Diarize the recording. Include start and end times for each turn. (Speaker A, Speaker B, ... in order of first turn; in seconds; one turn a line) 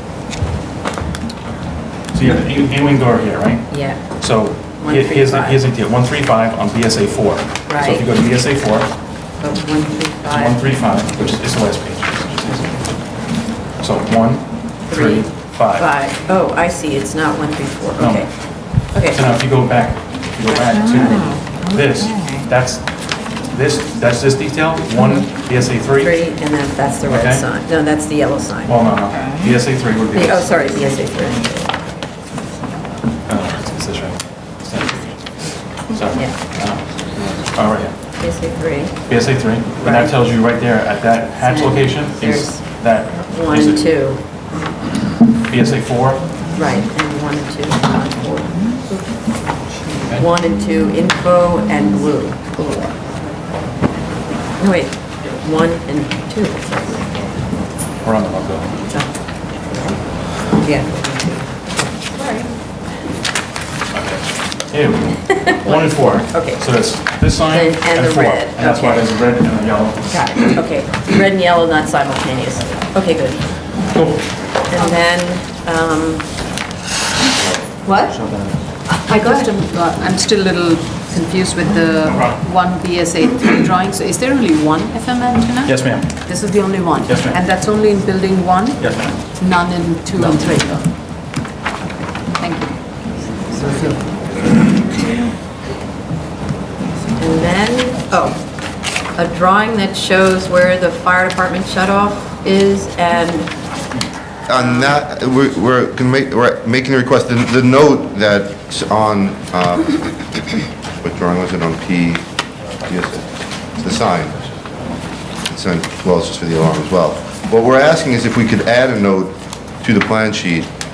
Speaker A: 2.1-3.7
Speaker B: 3.7-4.0
Speaker A: 4.2-8.9
Speaker B: 4.8-5.6
Speaker B: 7.7-8.0
Speaker B: 9.4-10.6
Speaker A: 10.3-12.8
Speaker A: 13.8-15.8
Speaker B: 14.9-18.3
Speaker A: 18.0-18.3
Speaker B: 18.9-19.2
Speaker A: 19.1-22.8
Speaker B: 20.5-21.3
Speaker A: 23.5-26.1
Speaker B: 26.0-28.8
Speaker A: 27.1-27.4
Speaker A: 28.7-30.5
Speaker B: 30.1-31.7
Speaker A: 33.3-35.1
Speaker A: 35.9-37.9
Speaker B: 38.2-38.9
Speaker A: 39.1-43.8
Speaker B: 39.8-40.1
Speaker B: 41.4-42.6
Speaker B: 43.2-44.2
Speaker A: 45.5-46.3
Speaker B: 46.5-49.0
Speaker B: 50.1-52.9
Speaker B: 54.6-57.1
Speaker A: 58.0-58.7
Speaker B: 58.9-59.1
Speaker B: 59.7-60.0
Speaker B: 60.5-62.5
Speaker A: 63.9-70.2
Speaker B: 65.3-66.6
Speaker B: 67.5-69.1
Speaker B: 70.1-73.4
Speaker A: 73.9-74.2
Speaker B: 74.7-76.3
Speaker B: 77.8-78.2
Speaker A: 78.2-78.5
Speaker B: 79.0-79.5
Speaker C: 79.0-88.8
Speaker A: 82.1-82.3
Speaker A: 85.6-86.2
Speaker A: 87.0-87.4
Speaker A: 88.8-89.2
Speaker C: 89.4-90.8
Speaker C: 92.4-92.7
Speaker C: 93.5-94.0
Speaker B: 97.2-98.3
Speaker B: 99.2-103.5
Speaker D: 104.5-110.0
Speaker B: 104.5-105.0
Speaker D: 111.0-112.2
Speaker D: 112.8-113.2
Speaker D: 113.8-114.3
Speaker D: 115.5-120.7